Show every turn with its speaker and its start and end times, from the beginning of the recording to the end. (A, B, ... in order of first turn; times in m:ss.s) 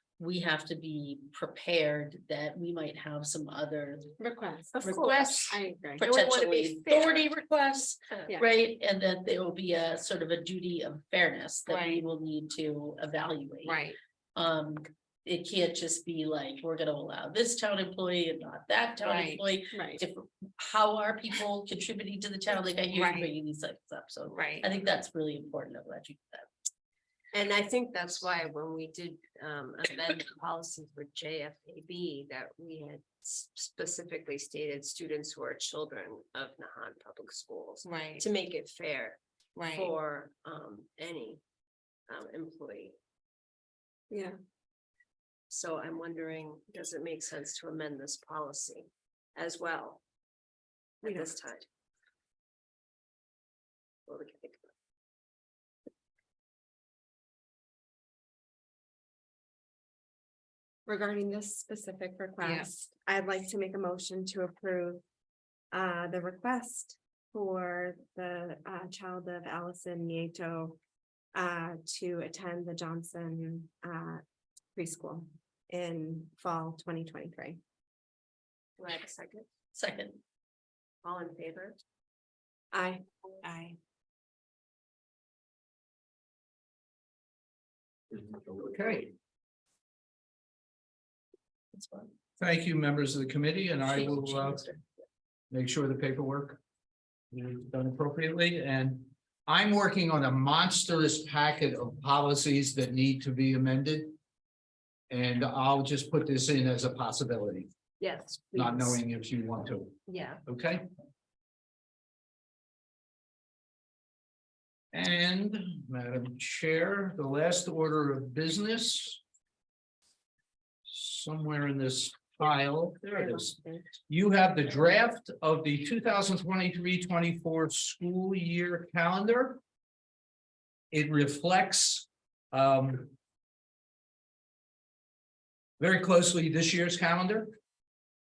0:00.2-0:04.1 A
0:04.2-0:06.0 B
0:04.8-0:13.8 A
0:04.9-0:05.2 C
0:06.0-0:07.3 C
0:11.7-0:12.0 D
0:13.6-0:14.0 D
0:14.4-0:26.5 A
0:19.0-0:19.4 D
0:19.7-0:20.0 B
0:22.9-0:23.3 D
0:24.3-0:24.7 D
0:27.3-0:39.2 C
0:37.8-0:38.2 D
0:39.6-0:39.9 D
0:39.7-0:41.4 C
0:42.1-0:43.0 C
0:45.5-0:50.0 C
0:51.0-0:51.6 C
0:51.0-0:51.3 B
0:54.1-0:54.7 C
1:00.8-1:05.0 B
1:02.4-1:02.7 D
1:05.7-1:10.8 B
1:11.3-1:14.2 B
1:14.7-1:17.6 B
1:18.8-1:19.4 C
1:19.7-1:20.2 A
1:21.0-1:21.8 C
1:22.7-1:23.0 B
1:23.4-1:23.8 D
1:28.1-1:29.1 E
1:31.8-1:32.0 A
1:32.4-1:34.6 E
1:33.9-1:34.8 A
1:35.5-1:36.6 E
1:37.3-1:44.2 E
1:45.1-1:47.7 E
1:48.0-1:49.0 C
1:48.5-1:50.8 E
1:50.1-1:50.4 C
1:54.9-1:59.2 E
2:00.8-2:03.6 E
2:03.2-2:03.6 B
2:04.1-2:09.6 E
2:10.9-2:13.1 E
2:15.8-2:17.5 E